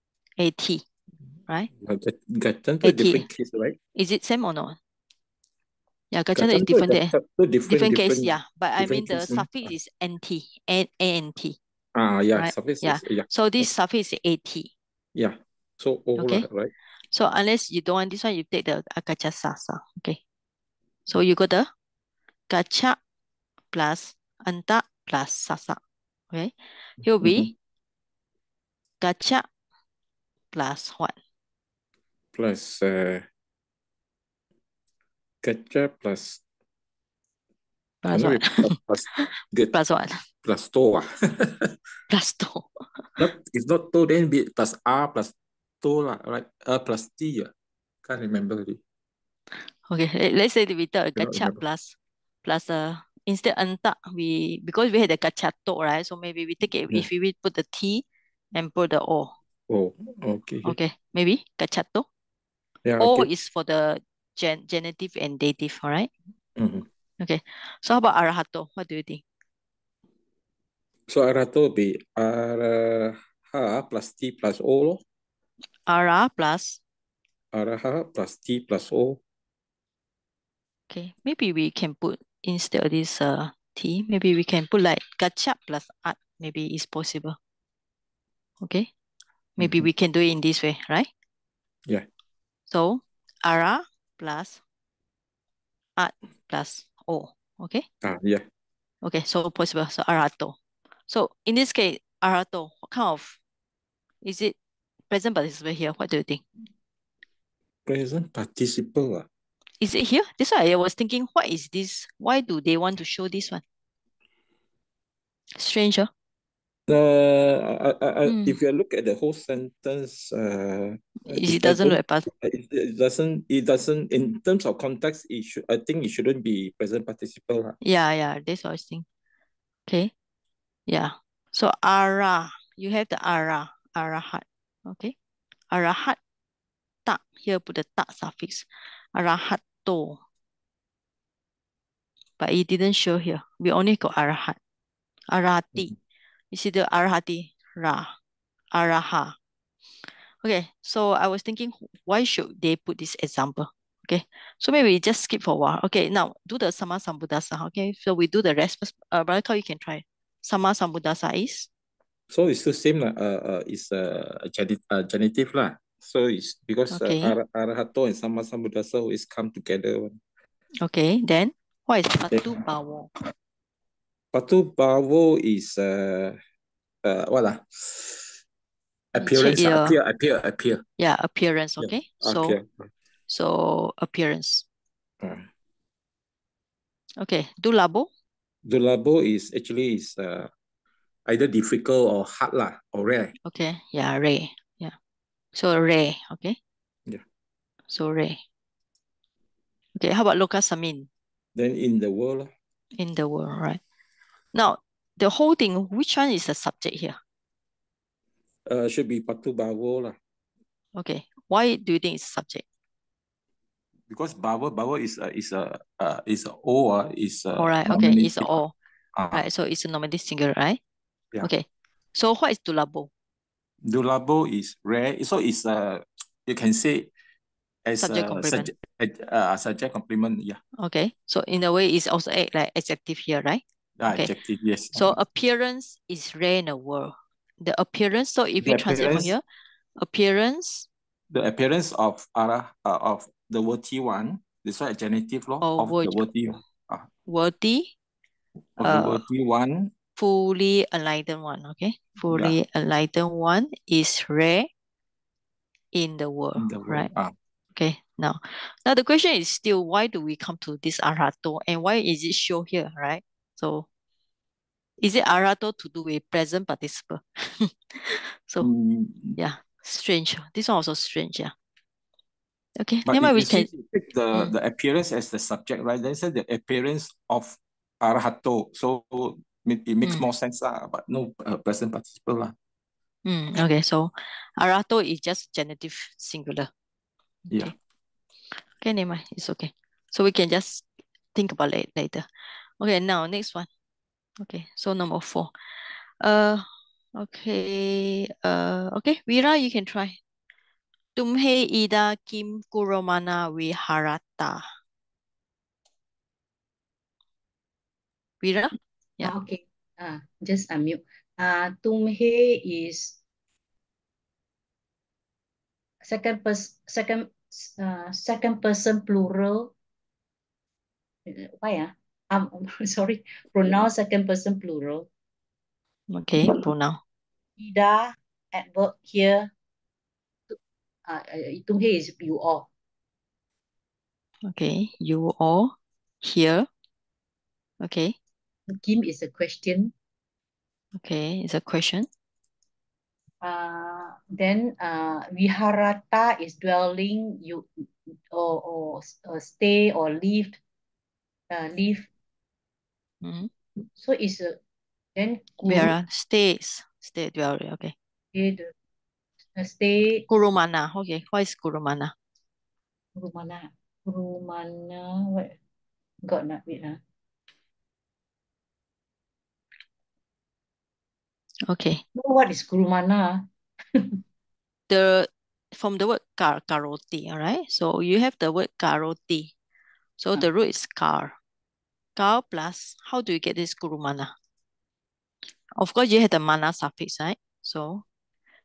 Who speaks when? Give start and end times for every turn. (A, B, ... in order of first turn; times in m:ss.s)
0:00.4-0:00.8 A
0:01.8-0:03.8 B
0:02.8-0:03.2 A
0:03.9-0:04.8 A
0:06.1-0:07.1 A
0:06.4-0:09.5 B
0:07.7-0:11.6 A
0:11.9-0:13.7 B
0:12.3-0:14.7 A
0:15.2-0:16.7 B
0:16.2-0:16.5 A
0:17.1-0:20.2 A
0:21.1-0:21.7 A
0:22.5-0:23.0 A
0:23.7-0:25.8 A
0:27.0-0:27.5 A
0:27.2-0:27.5 B
0:29.0-0:29.4 A
0:30.5-0:31.1 A
0:32.3-0:33.2 B
0:35.4-0:36.4 B
0:38.0-0:40.2 A
0:38.1-0:39.7 B
0:40.4-0:41.7 B
0:42.1-0:42.7 A
0:43.2-0:47.5 B
0:48.0-0:48.8 B
0:49.9-0:51.9 A
0:51.2-0:51.6 B
0:52.4-0:59.3 A
0:59.7-1:00.8 B
1:00.6-1:02.0 A
1:02.8-1:03.3 B
1:03.0-1:06.1 A
1:06.6-1:06.8 B
1:07.2-1:09.2 A
1:11.1-1:15.0 B
1:15.9-1:16.8 A
1:17.5-1:19.2 B
1:20.9-1:27.4 A
1:28.6-1:28.9 A
1:29.6-1:29.9 B
1:29.6-1:31.1 A
1:32.7-1:34.6 A
1:36.0-1:37.8 A
1:38.0-1:38.4 B
1:39.0-1:40.6 A
1:41.1-1:43.4 A
1:44.2-1:44.6 A
1:45.1-1:46.4 A
1:47.8-1:49.3 B
1:49.8-1:53.6 A
1:55.6-1:56.1 A
1:56.9-2:07.7 B
1:58.3-1:58.6 A
2:01.3-2:02.2 A
2:07.8-2:09.0 A
2:10.9-2:15.1 A
2:15.7-2:16.2 A
2:17.0-2:20.2 A
2:22.4-2:24.6 A
2:25.3-2:25.9 A
2:26.5-2:28.1 A
2:28.7-2:29.3 A
2:30.4-2:41.7 A
2:42.3-2:50.2 B
2:46.9-2:47.3 A
2:50.8-2:53.1 A
2:52.2-2:52.6 B
2:54.3-2:56.4 B
2:57.0-2:58.2 B
2:59.1-3:00.8 B
2:59.2-3:00.0 A
3:01.0-3:02.6 A
3:01.8-3:02.9 B
3:03.3-3:04.6 A
3:05.2-3:05.5 B
3:07.2-3:08.1 A
3:08.6-3:10.5 B
3:11.3-3:13.3 B
3:13.4-3:14.9 A
3:15.5-3:16.6 A
3:17.9-3:18.4 A
3:20.0-3:21.1 A
3:21.5-3:22.5 B
3:23.0-3:23.8 A
3:24.5-3:27.2 A
3:28.6-3:30.1 B
3:31.0-3:32.6 A
3:34.1-3:38.6 B
3:37.6-3:38.7 A
3:39.2-3:39.4 B
3:39.3-3:40.8 A
3:41.4-3:43.1 A
3:43.9-3:47.1 B
3:47.8-3:50.6 B
3:48.0-3:48.7 A
3:50.8-3:54.3 A
3:54.0-3:55.2 B
3:54.9-3:59.4 A
3:58.6-3:59.3 B
4:00.0-4:00.9 A
4:01.3-4:07.1 B
4:05.6-4:06.3 A
4:07.3-4:07.9 A
4:08.8-4:09.9 B
4:08.8-4:09.2 A
4:10.2-4:14.7 A
4:12.2-4:12.6 B
4:15.9-4:17.1 A
4:16.6-4:17.3 B
4:17.7-4:23.8 A
4:25.0-4:28.7 A
4:28.6-4:29.4 B
4:29.4-4:31.5 A
4:32.8-4:33.7 A
4:33.0-4:42.5 B
4:43.2-4:46.7 A
4:47.5-4:47.7 A
4:48.8-4:52.2 A
4:52.8-4:53.7 A
4:54.4-4:55.5 A
4:56.2-4:56.6 A
4:57.2-5:00.2 A
5:01.2-5:04.6 A
5:08.4-5:09.3 A
5:09.2-5:13.2 C
5:16.0-5:19.7 C
5:21.3-5:25.1 C
5:26.1-5:27.0 A
5:27.6-5:29.5 C
5:30.5-5:32.7 C
5:34.5-5:36.7 A
5:37.8-5:38.1 A
5:38.7-5:39.9 C
5:40.9-5:42.1 A
5:43.4-5:50.6 C
5:51.5-5:52.1 C
5:53.2-5:53.5 A
5:54.0-5:54.6 C
5:55.2-5:56.0 C
5:55.7-5:57.9 A
5:58.3-5:58.7 C
5:59.6-6:00.2 C
6:00.3-6:02.1 A
6:03.2-6:05.6 C
6:06.2-6:07.0 C
6:11.7-6:12.0 A
6:12.1-6:14.2 C
6:14.9-6:19.5 A
6:20.2-6:21.3 A
6:22.2-6:24.3 A
6:25.8-6:28.0 A